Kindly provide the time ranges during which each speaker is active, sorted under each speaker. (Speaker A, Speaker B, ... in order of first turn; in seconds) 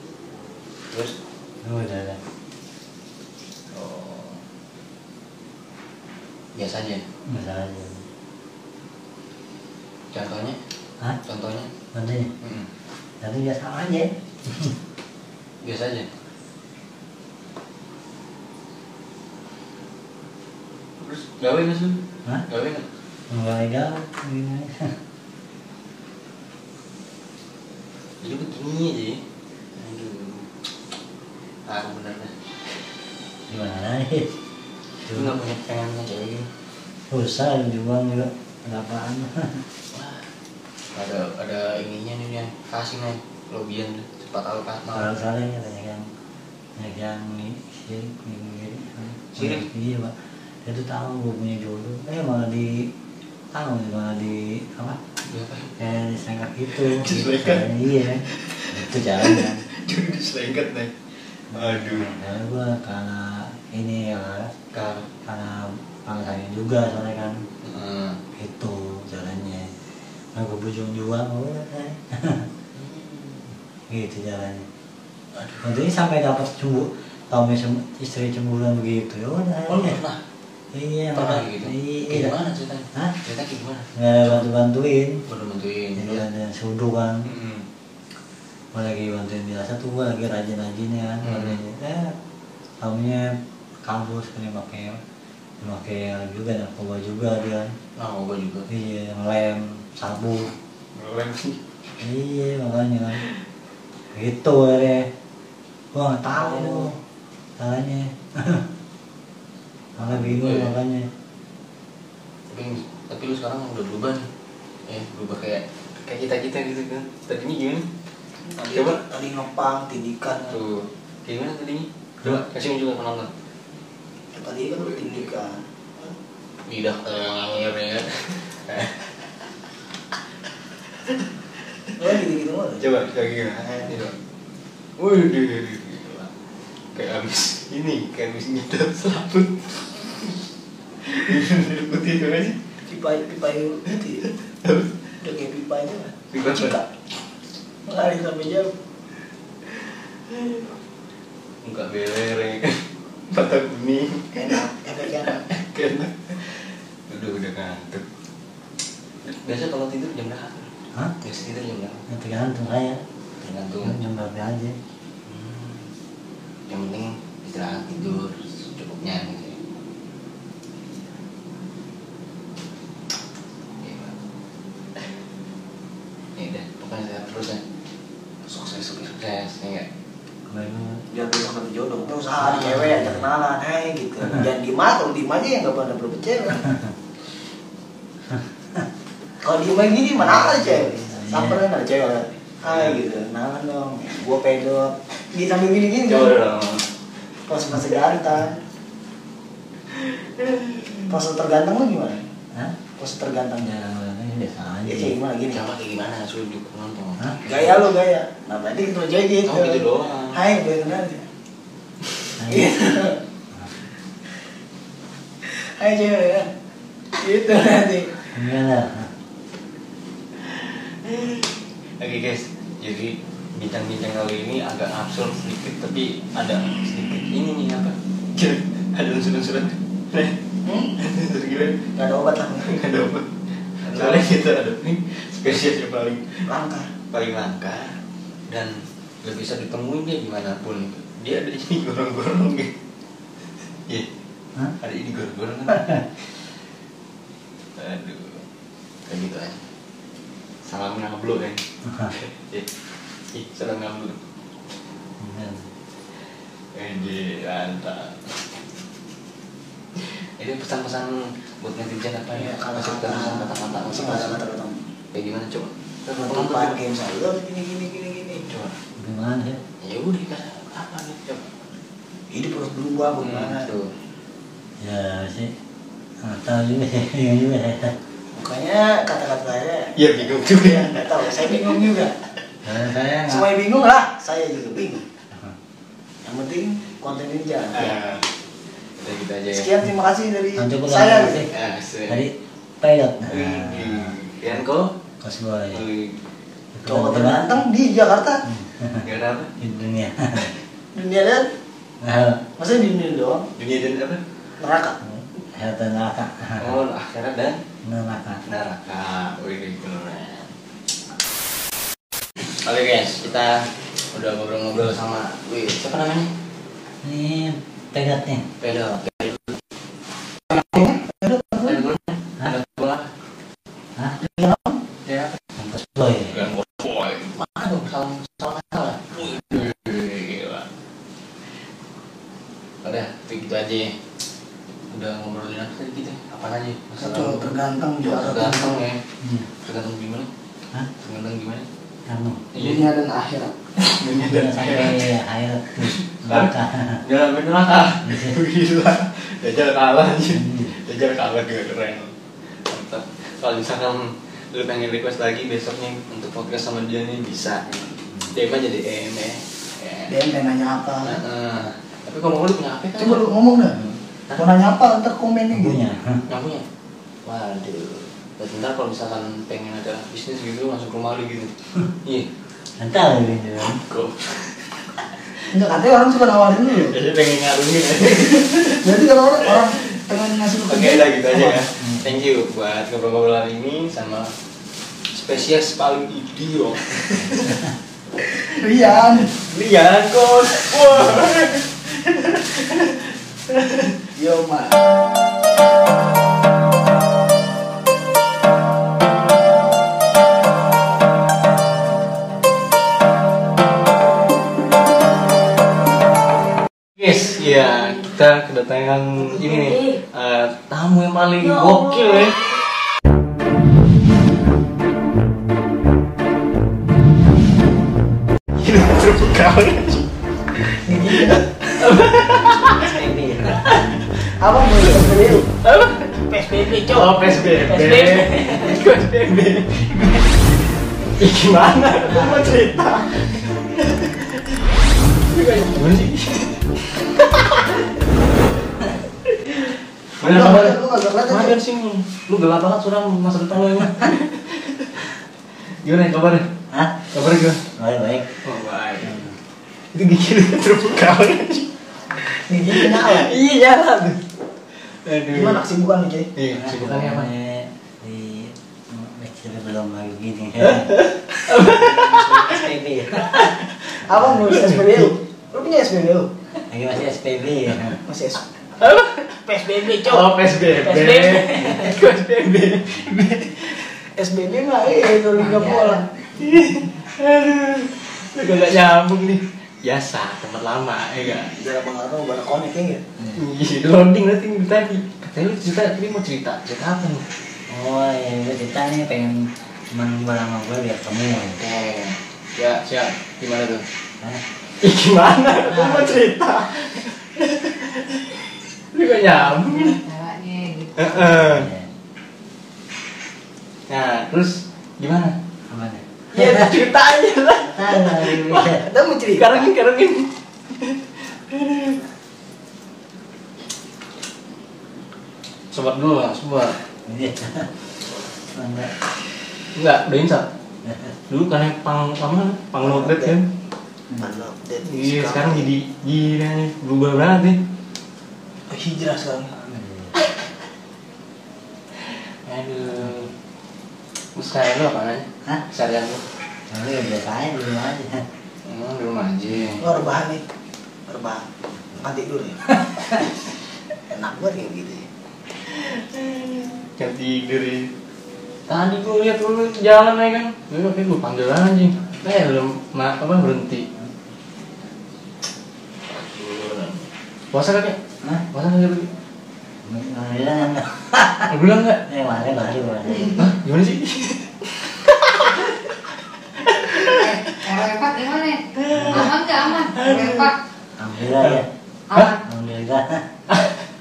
Speaker A: 1.6-2.2, 7.3-8.0, 11.9-12.3, 13.2-14.8, 23.3-24.9, 33.5-34.3, 35.0-35.4, 37.1-39.6, 44.9-46.1, 46.8-52.9, 53.5-55.0, 55.8-59.6, 61.5-64.5, 65.2-67.4, 68.3-69.7, 70.3-72.5, 73.9-74.7, 75.6-80.0, 80.7-82.4, 84.0-85.2, 86.0-87.3, 88.7-92.1, 92.8-93.3, 93.8-95.0, 95.6-97.8, 98.7-100.5, 102.0-103.2, 104.1-105.1, 105.9-107.0, 107.6-108.7, 110.0-111.1, 162.1-163.0, 163.8-164.8, 180.5-181.0, 182.9-183.3, 188.3-188.9, 190.2-191.6, 203.6-205.2, 212.4-212.8, 218.3-219.1, 251.8-252.1, 255.2-255.7, 269.0-269.6, 274.8-275.5, 276.2-278.0, 282.6-283.5, 290.6-291.5, 292.1-294.1, 295.2-295.8, 296.8-297.6, 298.4-299.0, 299.6-300.5, 302.0-302.4, 305.0-306.8, 307.8-308.4, 317.0-318.5, 325.6-326.4, 339.2-339.5, 342.1-342.5, 344.1-347.0, 348.0-348.4, 350.3-350.8, 365.5-366.2, 372.8-373.8, 381.8-382.1, 422.6-423.7, 432.1-432.6, 446.7-447.1, 447.7-448.3, 449.0-449.3, 456.5-461.0, 461.6-463.5, 466.7-468.0, 487.7-491.6, 495.6-496.2, 501.1-501.9, 505.7-506.7, 507.6-508.8, 517.1-517.7, 518.5-518.9, 520.8-521.1, 529.5-530.2, 536.7-538.2, 559.8-561.5, 562.0-563.5, 568.9-569.3, 571.0-571.7, 572.4-573.2
Speaker B: 3.7-4.4, 6.5-7.0, 10.1-10.6, 11.2-11.7, 12.4-12.7, 15.6-16.1, 21.0-22.9, 28.2-29.2, 29.8-30.5, 31.7-32.3, 35.0-36.5, 39.9-40.3, 40.9-45.1, 49.3-49.7, 55.3-55.7, 56.7-57.6, 58.3-60.9, 61.5-62.1, 64.7-65.1, 67.6-68.2, 72.8-73.4, 75.3-75.7, 79.7-80.2, 81.1-84.5, 85.3-86.2, 87.2-87.7, 91.2-91.6, 98.0-98.7, 101.0-101.6, 106.3-106.9, 110.0-110.7, 112.5-114.3, 114.9-117.9, 118.7-119.0, 120.3-123.3, 124.8-125.2, 126.7-129.1, 132.8-134.1, 135.0-136.3, 136.9-140.3, 141.0-142.6, 144.2-144.9, 146.3-146.8, 151.6-158.1, 159.2-160.7, 161.2-162.0, 163.4-164.0, 165.3-165.8, 166.7-169.6, 173.8-174.2, 176.4-177.6, 179.0-179.9, 182.4-183.0, 192.7-193.0, 196.1-196.9, 199.9-201.1, 205.5-207.9, 209.4-210.4, 221.0-221.5, 222.0-231.9, 232.6-236.5, 237.1-238.0, 238.5-242.7, 244.8-246.1, 247.8-248.4, 249.1-249.6, 250.7-252.7, 253.3-254.2, 256.8-258.2, 260.0-264.4, 265.1-266.8, 268.5-268.8, 269.8-271.5, 273.2-273.9, 279.9-281.6, 287.7-288.2, 289.0-289.7, 291.5-292.2, 293.3-294.9, 295.7-296.2, 299.0-299.5, 303.6-304.2, 306.6-307.6, 308.5-310.5, 312.4-316.3, 318.6-319.6, 321.6-323.1, 325.1-325.5, 326.3-330.7, 332.8-334.0, 334.9-339.0, 339.6-340.3, 341.0-341.7, 342.5-342.9, 343.8-345.1, 345.8-352.1, 352.6-360.1, 361.0-363.3, 366.3-366.6, 367.2-372.3, 373.8-375.4, 376.8-380.1, 380.6-384.3, 385.1-387.7, 389.3-393.9, 406.9-412.5, 418.6-420.1, 420.6-422.9, 423.5-424.3, 424.9-430.5, 431.2-434.5, 435.3-437.9, 439.3-445.1, 445.8-446.5, 447.1-447.6, 448.4-449.3, 449.9-454.2, 455.0-455.6, 456.4-457.3, 460.6-462.6, 463.2-465.1, 468.8-473.9, 476.4-481.6, 483.4-487.2, 491.6-493.9, 494.8-498.3, 498.9-500.0, 501.0-501.7, 503.9-505.4, 506.3-512.0, 515.7-516.8, 519.8-520.5, 521.3-523.5, 524.9-527.6, 532.0-533.3, 534.4-536.2, 538.6-539.9, 545.7-547.9, 548.7-553.9, 556.1-558.0, 558.5-559.1, 561.5-562.0, 563.3-567.8, 568.9-570.5, 571.4-571.6
Speaker C: 118.5-120.6, 124.3-125.6, 132.0-132.8, 142.9-144.2, 145.2-146.8, 147.9-148.7, 154.3-155.4, 178.5-179.1, 181.1-186.7, 189.4-196.4, 197.5-198.6, 201.1-202.2, 203.0-203.8, 204.9-205.6, 207.4-211.3, 212.4-213.2, 215.4-216.5, 217.2-218.2, 230.7-230.9, 231.9-232.7, 233.9-234.3, 236.5-236.9, 262.3-264.8, 266.1-268.5, 272.3-273.7, 278.3-282.2, 283.3-285.1, 286.2-287.9, 289.5-291.5, 296.9-298.4, 300.9-301.5, 302.6-303.5, 304.6-305.0, 320.5-321.8, 324.2-324.8, 337.0-338.8, 342.6-343.7, 360.1-361.2, 363.0-363.8, 364.4-365.8, 375.5-377.0, 378.6-381.6, 388.5-389.4, 394.1-394.8, 420.9-421.5, 424.4-425.5, 426.3-428.7, 440.2-441.6, 452.5-453.4, 455.3-456.3, 464.0-466.3, 468.0-468.4, 469.4-472.0, 474.2-476.1, 481.3-483.0, 508.7-509.6, 522.8-523.4, 524.1-525.7, 528.7-529.5, 539.8-540.4, 541.1-543.3, 544.1-545.0
Speaker D: 475.4-476.1, 499.6-501.1, 567.0-570.6, 572.1-572.4